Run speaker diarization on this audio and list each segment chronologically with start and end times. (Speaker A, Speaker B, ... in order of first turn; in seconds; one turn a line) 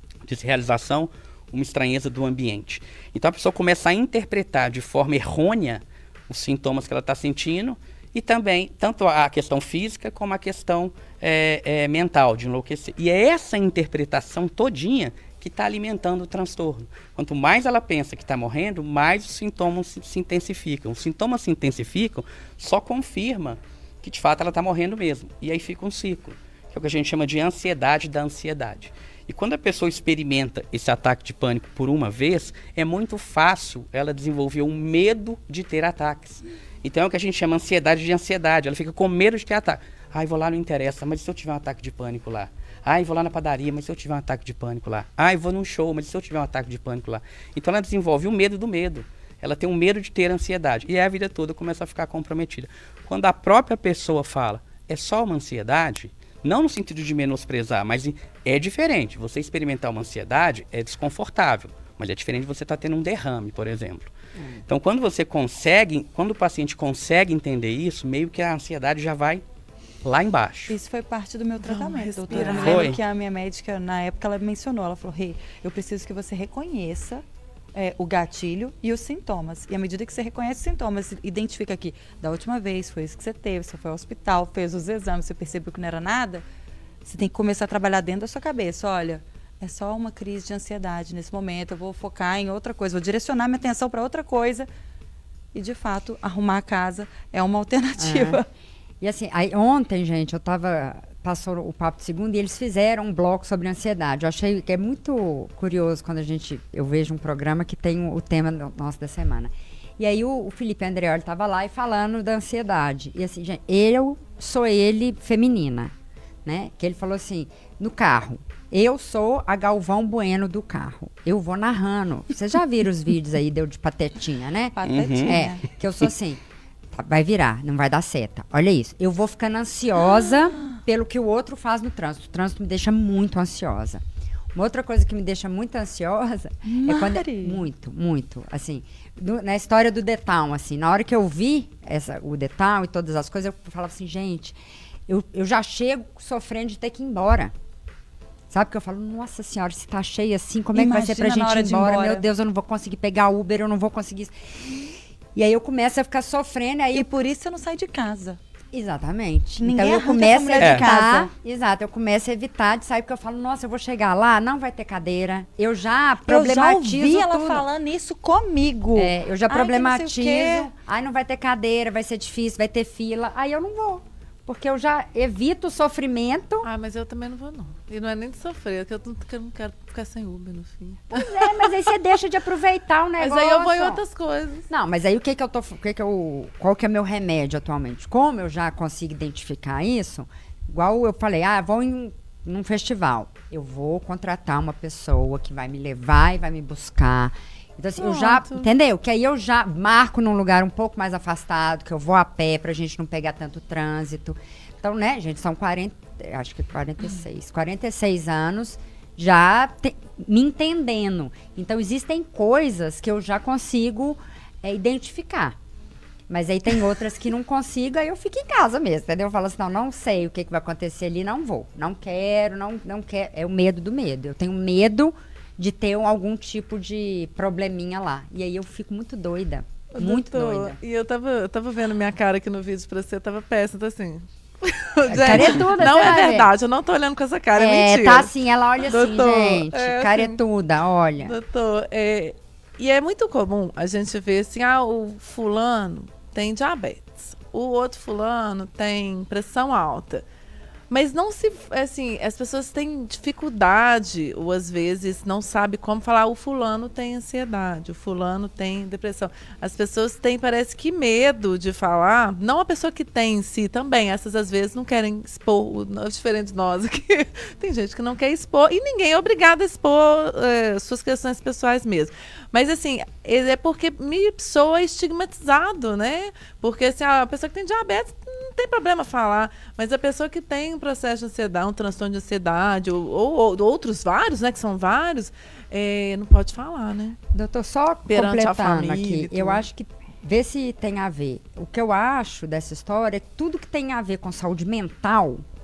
Speaker A: 0.3-64.1
Speaker A: 64.7-69.4
Speaker A: 70.0-70.8
Speaker B: 70.7-77.2
Speaker C: 71.6-73.0
Speaker A: 72.5-73.0
Speaker B: 77.7-86.5
Speaker B: 87.0-94.7
Speaker B: 95.5-98.5
Speaker D: 98.0-98.4
Speaker D: 99.0-115.9
Speaker D: 116.5-126.4
Speaker B: 124.8-125.7
Speaker A: 124.9-125.4
Speaker D: 126.9-134.0
Speaker D: 134.6-144.6
Speaker B: 136.7-137.6
Speaker D: 145.1-147.5
Speaker D: 148.5-157.1
Speaker B: 150.7-152.2
Speaker B: 156.9-158.4
Speaker D: 158.7-167.7
Speaker B: 159.6-161.3
Speaker A: 160.6-160.9
Speaker B: 166.3-170.7
Speaker D: 169.0-176.7
Speaker C: 176.6-181.7
Speaker D: 181.1-184.0
Speaker C: 183.2-184.7
Speaker D: 184.7-215.6
Speaker C: 198.0-198.7
Speaker D: 216.3-230.8
Speaker C: 229.9-240.4
Speaker D: 235.1-236.5
Speaker D: 237.6-241.3
Speaker C: 241.2-250.2
Speaker C: 250.9-287.2
Speaker D: 287.3-295.4
Speaker C: 288.1-289.6